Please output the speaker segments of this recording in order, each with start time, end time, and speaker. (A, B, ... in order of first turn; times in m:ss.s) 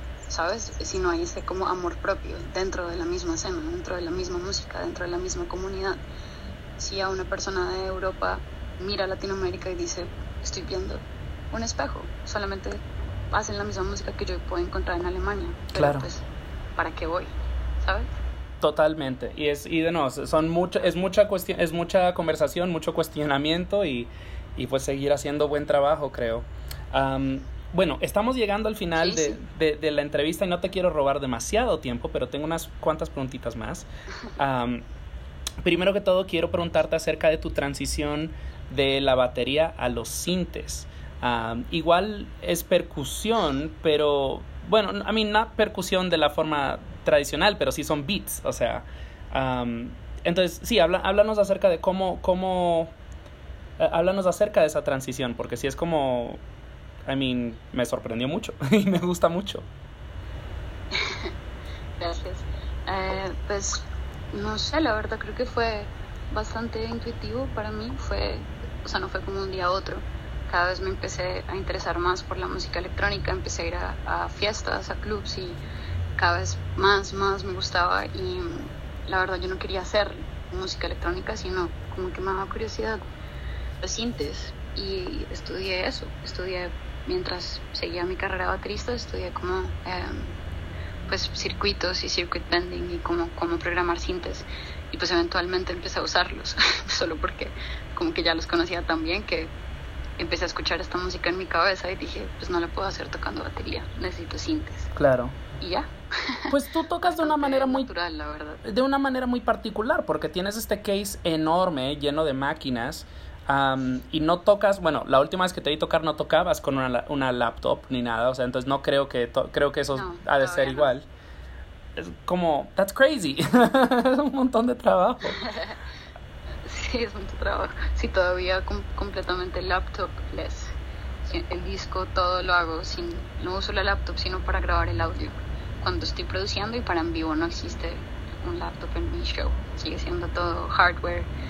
0:00.3-0:06.0 A
0:06.8-0:16.2 A
0:15.7-0:16.1 B
0:16.8-0:18.1 A
0:18.6-0:34.8 B
0:29.0-0:29.4 A
0:35.6-0:52.9 B
0:53.8-0:56.4 B
0:57.0-0:59.7 B
1:00.9-1:01.3 A
1:02.0-1:15.6 A
1:16.2-1:23.0 A
1:23.8-1:30.4 A
1:31.1-1:39.5 A
1:40.2-1:44.9 A
1:44.9-1:45.4 B
1:45.6-1:48.6 A
1:46.5-1:47.9 B
1:48.6-2:01.1 B
1:59.9-2:00.9 A
2:02.0-2:05.4 B
2:05.3-2:05.8 A
2:06.6-2:21.3 A